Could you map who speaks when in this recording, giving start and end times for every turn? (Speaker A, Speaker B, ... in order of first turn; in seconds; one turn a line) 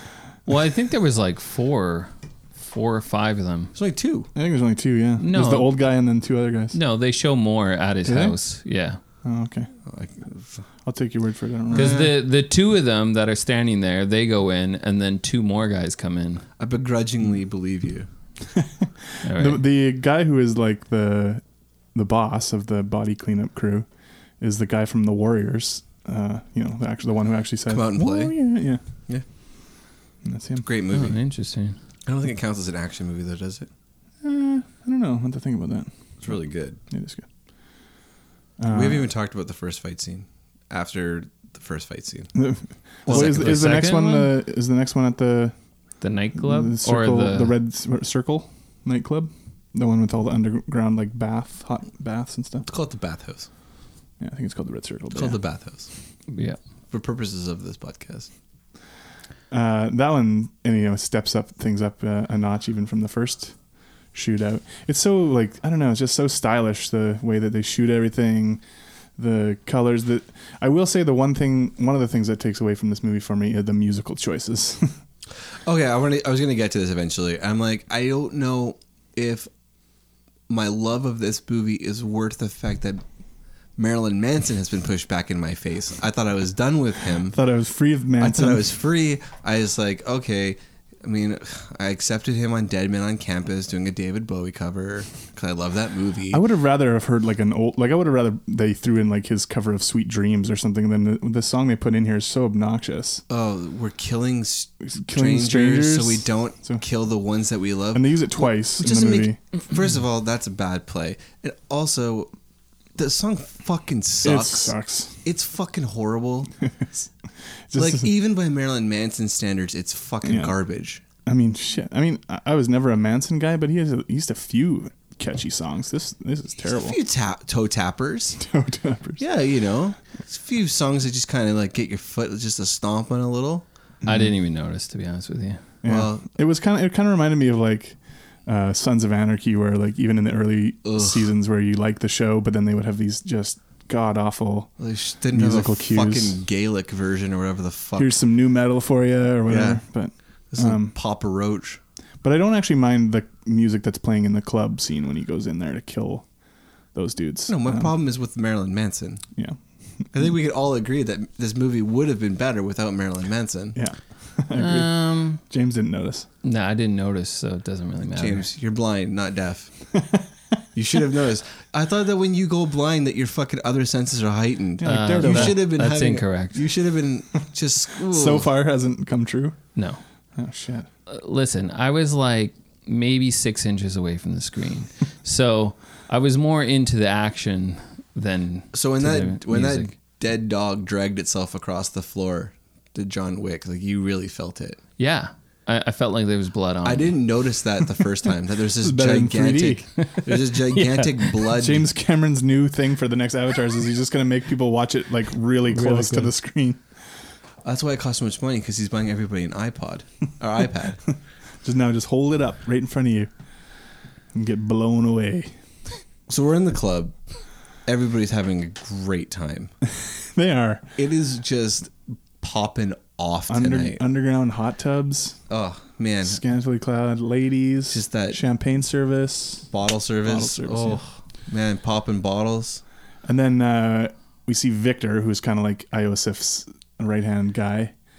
Speaker A: 0.5-3.7
Speaker B: 3.7-4.3
Speaker C: 4.3-6.8
Speaker A: 5.2-5.8
Speaker A: 6.7-9.0
Speaker C: 8.0-8.4
Speaker C: 9.2-9.7
Speaker B: 9.8-10.6
Speaker C: 10.8-11.9
Speaker B: 11.7-12.1
Speaker A: 11.7-16.4
Speaker B: 16.6-18.1
Speaker C: 18.6-23.9
Speaker A: 19.2-19.6
Speaker C: 24.4-28.8
Speaker B: 27.7-28.4
Speaker C: 30.2-30.6
Speaker B: 30.6-31.2
Speaker A: 30.9-31.8
Speaker B: 32.0-33.7
Speaker C: 34.2-37.3
Speaker B: 36.2-36.8
Speaker C: 38.6-39.1
Speaker B: 38.7-42.4
Speaker C: 42.3-45.5
Speaker B: 43.0-43.8
Speaker A: 43.1-44.3
Speaker A: 46.0-47.6
Speaker C: 46.4-52.7
Speaker B: 52.6-53.5
Speaker C: 54.2-55.4
Speaker B: 55.1-55.9
Speaker A: 56.3-56.6
Speaker B: 56.9-58.3
Speaker C: 59.5-63.6
Speaker C: 64.1-68.6
Speaker C: 69.2-74.9
Speaker B: 75.6-79.5
Speaker B: 80.5-83.0
Speaker B: 83.8-87.4
Speaker C: 87.3-88.6
Speaker B: 88.2-96.4
Speaker C: 96.3-103.2
Speaker B: 103.3-112.3
Speaker C: 104.8-106.8
Speaker C: 107.9-109.4
Speaker B: 112.9-116.5
Speaker C: 114.2-115.2
Speaker C: 117.7-118.1
Speaker B: 117.7-121.0
Speaker C: 120.2-120.5
Speaker C: 121.2-127.0
Speaker B: 126.7-128.4
Speaker C: 128.4-129.2
Speaker B: 129.2-133.6
Speaker C: 134.0-134.3
Speaker A: 134.0-135.6
Speaker C: 135.8-144.7
Speaker B: 135.8-136.3
Speaker B: 140.8-141.3
Speaker B: 144.8-148.2
Speaker C: 145.3-146.4
Speaker C: 148.0-150.9
Speaker B: 149.5-149.8
Speaker B: 150.5-151.8
Speaker C: 152.2-156.2
Speaker C: 156.9-157.9
Speaker B: 157.5-159.2
Speaker B: 160.1-163.8
Speaker C: 163.7-166.3
Speaker A: 164.5-165.4
Speaker A: 166.4-168.5
Speaker B: 168.2-169.7
Speaker C: 170.0-170.2
Speaker B: 170.7-178.5
Speaker C: 174.8-175.6
Speaker A: 174.8-176.6
Speaker C: 178.1-179.6
Speaker A: 179.7-180.0
Speaker C: 180.3-180.9
Speaker A: 181.1-189.9
Speaker B: 188.7-194.8
Speaker A: 195.0-197.2
Speaker B: 196.8-201.8
Speaker C: 198.8-199.8
Speaker C: 201.4-206.8
Speaker A: 205.8-206.2
Speaker B: 207.6-211.0
Speaker C: 211.6-213.3
Speaker C: 214.3-215.5
Speaker B: 216.3-217.2
Speaker B: 217.8-219.7
Speaker C: 220.0-220.8
Speaker B: 221.0-224.0
Speaker C: 223.5-225.4
Speaker B: 225.5-226.4
Speaker C: 226.2-229.7
Speaker B: 227.9-228.4
Speaker B: 229.7-232.8
Speaker C: 230.2-231.0
Speaker C: 233.2-237.9